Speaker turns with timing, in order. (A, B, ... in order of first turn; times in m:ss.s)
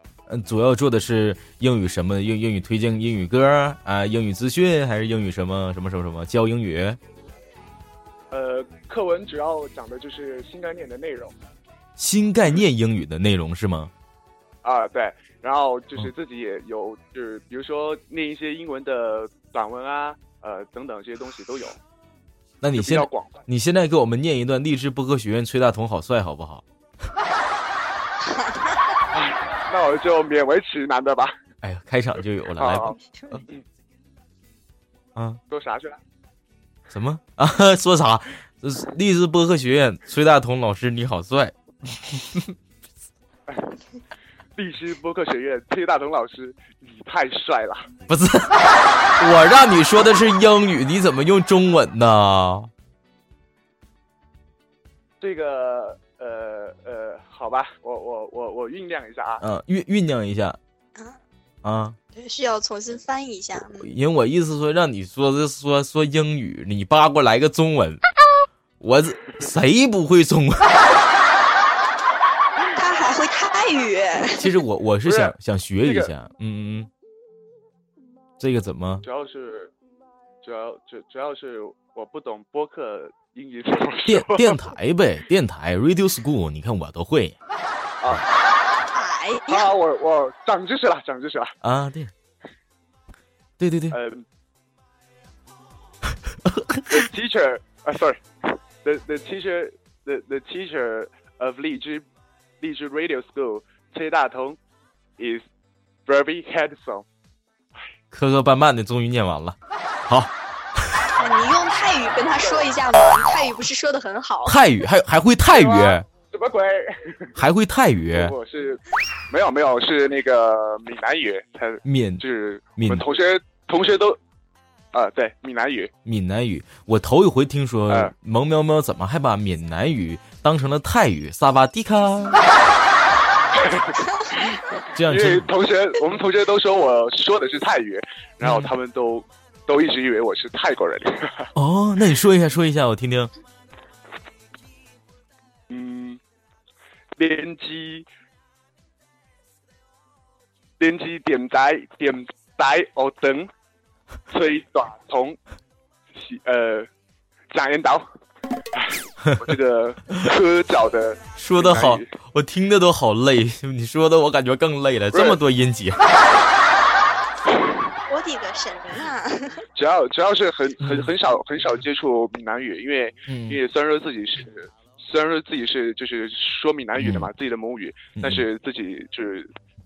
0:00.3-0:07.0 A
0:08.3-0:11.4 B
0:12.0-0:13.9 A
0:14.6-0:21.8 B
0:22.6-0:26.6 A
0:22.8-0:23.4 B
0:29.1-0:31.4 B
0:31.6-0:33.4 A
0:32.6-0:33.0 B
0:35.2-0:35.4 A
0:35.5-0:36.0 B
0:36.9-0:42.6 A
0:44.6-0:47.9 B
0:48.1-0:52.7 A
0:55.2-0:59.4 B
0:59.4-1:00.6 A
1:01.6-1:02.0 A
1:02.1-1:03.9 C
1:03.8-1:08.0 A
1:08.8-1:10.8 A
1:12.8-1:14.5 C
1:14.4-1:16.9 A
1:15.0-1:16.1 B
1:18.4-1:19.0 A
1:19.0-1:19.7 B
1:20.4-1:24.6 B
1:24.1-1:27.4 A
1:28.0-1:28.3 B
1:28.9-1:29.7 C
1:29.5-1:31.5 B
1:31.6-1:32.1 A
1:33.6-1:34.0 A
1:33.9-1:34.2 B
1:36.3-1:37.0 A
1:36.9-1:42.0 B
1:42.6-1:44.6 B
1:45.2-1:45.4 B
1:46.1-1:47.0 B
1:48.1-1:49.6 A
1:50.1-1:50.9 A
1:51.2-1:54.6 C
1:52.4-1:52.7 B
1:54.5-1:56.1 A
1:55.5-1:57.4 B
1:57.4-1:58.3 A
1:58.1-2:04.2 B
2:01.8-2:02.2 A
2:02.8-2:03.0 A
2:04.9-2:05.9 B
2:06.0-2:12.4 A
2:13.6-2:21.5 B
2:14.9-2:15.5 A
2:18.4-2:18.7 A
2:21.6-2:23.3 A
2:25.7-2:26.2 B
2:27.2-2:28.1 B
2:30.8-2:33.5 B
2:34.3-2:35.4 B
2:36.2-2:36.9 B
2:37.5-2:38.1 B
2:38.8-2:42.1 B
2:41.4-2:46.1 A
2:45.1-2:45.4 B
2:48.1-2:49.6 C
2:49.8-2:59.5 B
2:50.8-2:51.1 A
2:53.3-2:53.6 A
2:57.0-2:57.3 A
2:58.2-2:58.5 A